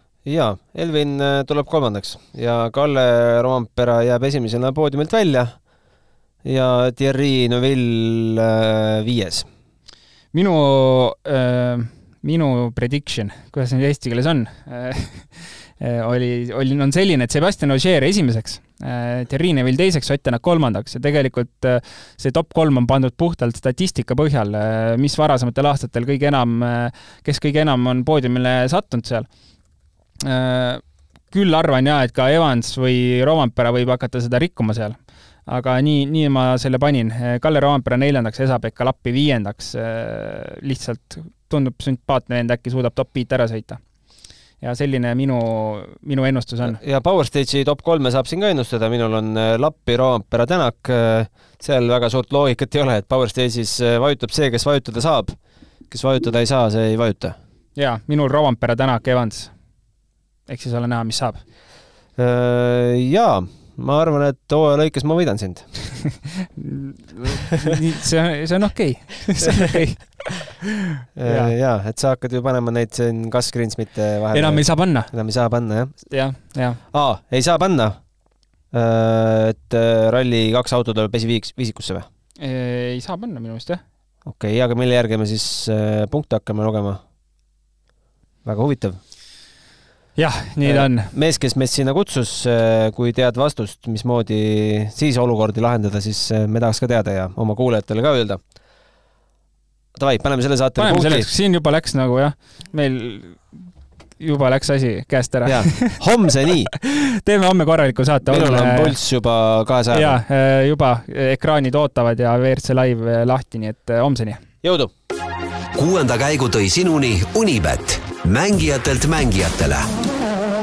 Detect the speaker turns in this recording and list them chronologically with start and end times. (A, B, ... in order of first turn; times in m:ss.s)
0:00.2-0:05.6 A
0:06.4-0:09.5 A
0:10.3-0:29.3 B
0:30.2-0:43.8 B
0:44.6-0:46.8 B
0:46.6-0:55.4 A
0:55.9-0:57.4 A
0:57.8-0:59.5 B
1:00.5-1:01.4 B
1:02.2-1:05.7 A
1:06.4-1:10.7 B
1:11.2-1:16.1 A
1:11.2-1:11.5 B
1:14.3-1:15.1 B
1:16.1-1:16.8 B
1:16.9-1:18.0 A
1:18.7-1:22.1 A
1:22.4-1:23.8 B
1:24.2-1:27.0 A
1:28.4-1:29.0 A
1:30.2-1:31.1 B
1:30.6-1:38.4 A
1:40.0-1:41.3 A
1:40.8-1:43.6 B
1:44.2-1:46.0 B
1:45.4-1:46.7 A
1:46.7-1:49.0 B
1:48.3-1:50.2 A
1:49.9-1:54.4 B
1:54.6-1:54.9 A
1:55.8-1:59.9 C